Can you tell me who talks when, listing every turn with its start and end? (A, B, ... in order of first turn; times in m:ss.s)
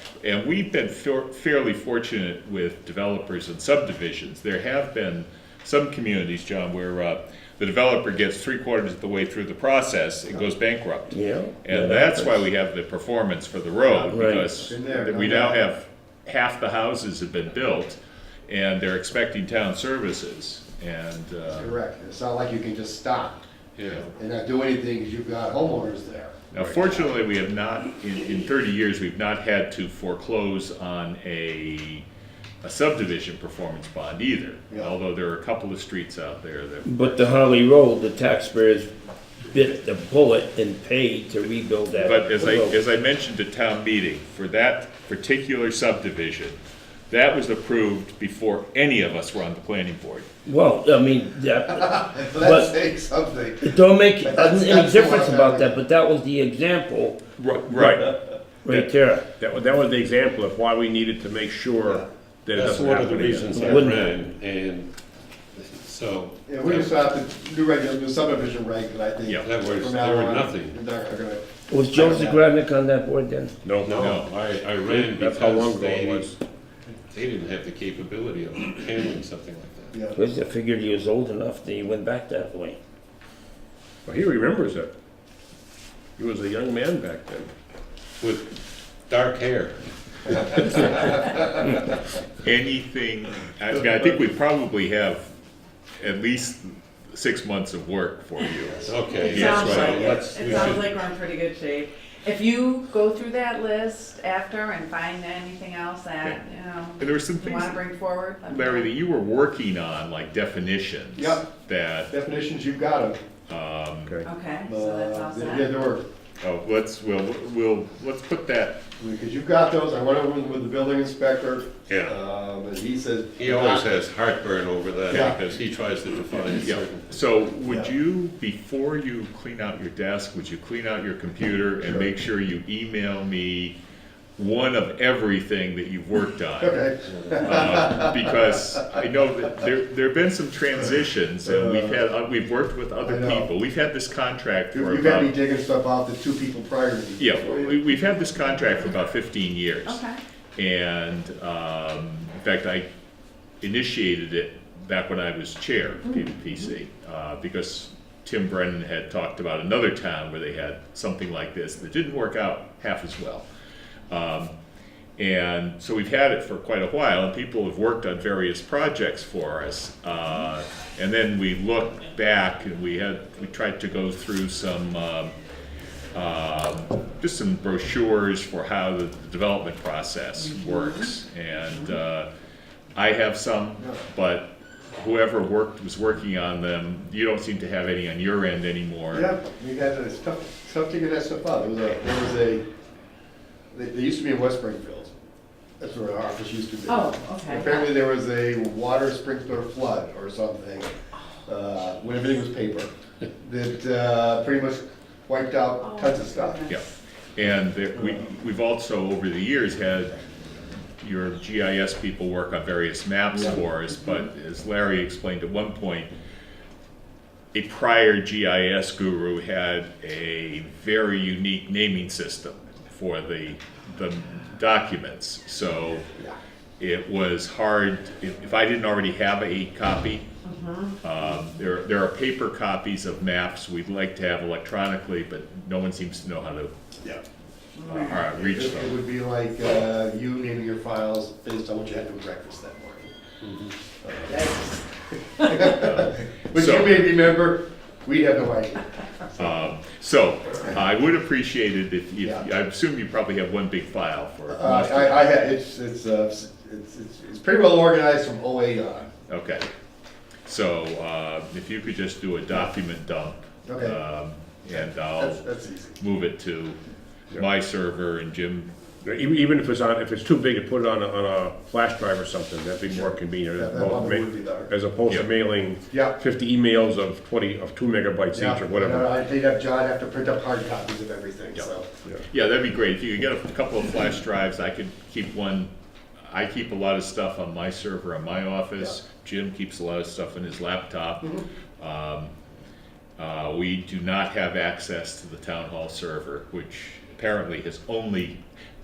0:00.2-0:21.7 A
0:11.1-0:12.5 B
0:14.1-0:14.5 B
0:14.7-0:15.6 C
0:21.5-0:23.4 C
0:23.8-0:24.0 D
0:24.1-0:27.1 C
0:26.5-0:32.0 A
0:32.6-0:37.4 A
0:36.8-0:38.9 B
0:39.4-0:42.7 B
0:42.0-0:46.6 A
0:47.1-0:50.3 A
0:50.4-0:52.8 B
0:51.7-0:55.8 C
0:53.6-0:57.2 B
0:57.4-0:58.1 A
0:58.6-0:59.2 B
0:59.4-1:03.9 E
1:02.5-1:04.9 D
1:03.5-1:04.0 B
1:05.5-1:07.0 D
1:06.5-1:12.4 C
1:09.4-1:10.8 D
1:11.7-1:13.5 B
1:13.6-1:14.1 E
1:13.8-1:16.3 D
1:14.0-1:14.3 A
1:14.8-1:16.4 E
1:17.1-1:20.0 D
1:19.9-1:20.2 C
1:20.1-1:22.8 B
1:24.0-1:24.9 E
1:26.2-1:27.5 E
1:28.2-1:28.5 D
1:29.1-1:29.8 D
1:32.4-1:35.3 A
1:36.0-1:40.2 A
1:38.8-1:41.0 D
1:39.1-1:48.9 F
1:47.0-1:47.8 A
1:48.4-1:52.1 A
1:51.2-1:51.5 C
1:52.1-1:53.2 C
1:53.5-1:54.2 A
1:54.2-1:55.8 F
1:54.7-1:56.0 C
1:56.4-1:58.8 A
1:59.0-2:04.0 C
2:01.9-2:02.1 D
2:03.4-2:07.1 D
2:05.1-2:05.4 C
2:06.6-2:13.8 A
2:07.7-2:07.9 C
2:11.8-2:12.1 C
2:14.4-2:16.8 A
2:16.6-2:18.5 C
2:17.4-2:25.3 A
2:21.4-2:22.0 C
2:23.0-2:23.5 C
2:24.7-2:27.8 C
2:27.2-2:30.0 A
2:29.8-2:30.2 F
2:30.6-2:32.9 A
2:33.6-2:43.4 A
2:36.1-2:36.3 F
2:44.1-2:44.5 A
2:45.2-2:55.3 A
2:56.1-3:02.3 A
3:00.5-3:00.9 F
3:03.0-3:09.3 A
3:09.1-3:12.6 C
3:13.7-3:15.1 C
3:15.8-3:20.9 C
3:16.9-3:18.0 F
3:21.4-3:26.6 C
3:25.8-3:26.8 F
3:26.7-3:30.2 A
3:28.0-3:28.2 C
3:31.0-3:36.1 A
3:37.5-3:46.1 A
3:46.8-3:50.3 A
3:50.4-3:51.0 F
3:51.0-3:56.7 A
3:57.8-3:58.1 F
3:57.8-4:03.1 C
3:57.9-3:58.9 A
4:04.0-4:04.8 C
4:04.3-4:04.7 F
4:05.3-4:09.5 C
4:05.5-4:07.1 A
4:09.4-4:15.3 A
4:14.5-4:19.1 C
4:19.3-4:19.7 A
4:20.4-4:25.4 A
4:23.6-4:24.0 C
4:24.7-4:26.0 C
4:26.0-4:26.8 A
4:27.3-4:28.7 A
4:29.0-4:39.1 E
4:33.6-4:34.7 C
4:35.9-4:36.2 C
4:38.3-4:41.9 C
4:42.3-4:45.7 A
4:46.3-4:52.3 A
4:53.2-4:58.4 A